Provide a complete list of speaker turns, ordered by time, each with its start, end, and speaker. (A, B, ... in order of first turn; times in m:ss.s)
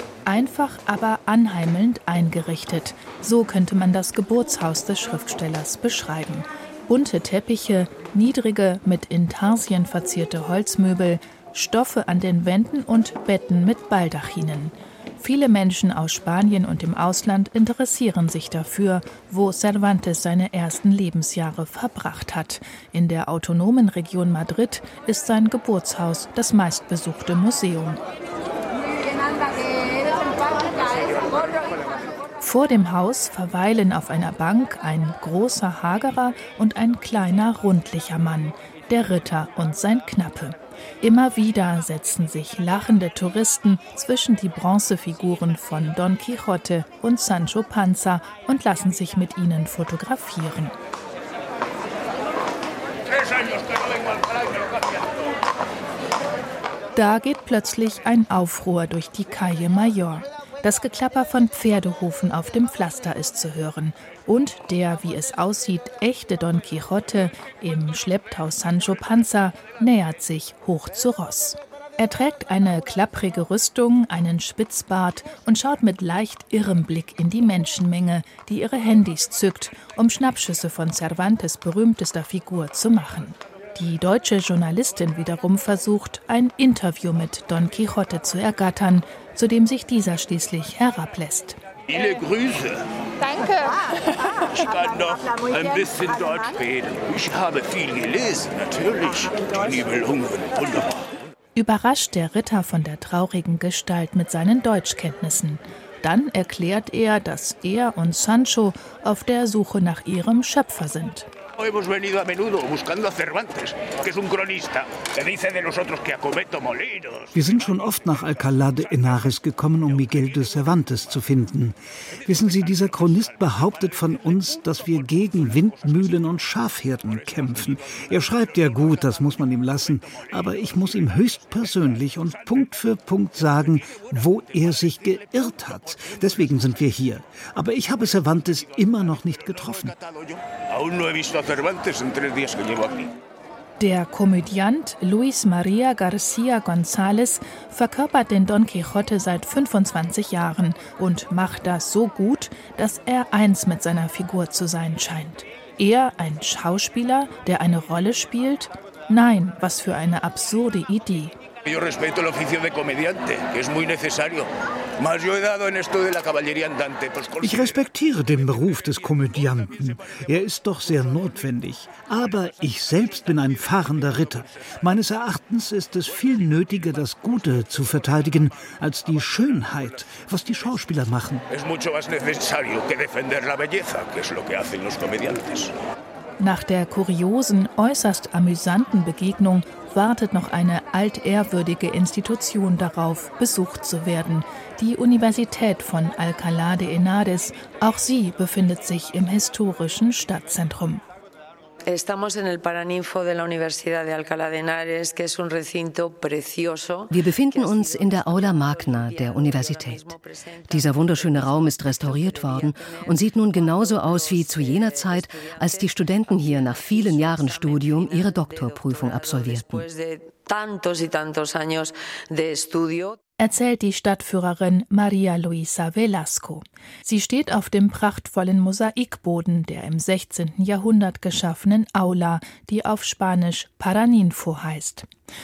0:00.2-0:28.0 A
0:32.4-0:50.7 A
0:53.2-0:53.6 B
0:57.0-1:31.6 A
1:31.9-1:32.8 B
1:34.2-1:41.0 B
1:41.6-1:51.3 A
1:51.6-1:57.3 B
1:57.3-2:19.9 C
2:19.9-2:23.1 B
2:23.8-2:41.3 A
2:41.6-2:44.5 B
2:45.0-2:47.8 B
2:47.4-3:01.4 C
3:01.5-3:05.7 B
3:06.4-3:21.0 A
3:21.9-3:27.2 D
3:27.1-3:30.1 E
3:30.7-3:39.8 E
3:39.7-3:43.2 D
3:43.4-3:55.1 A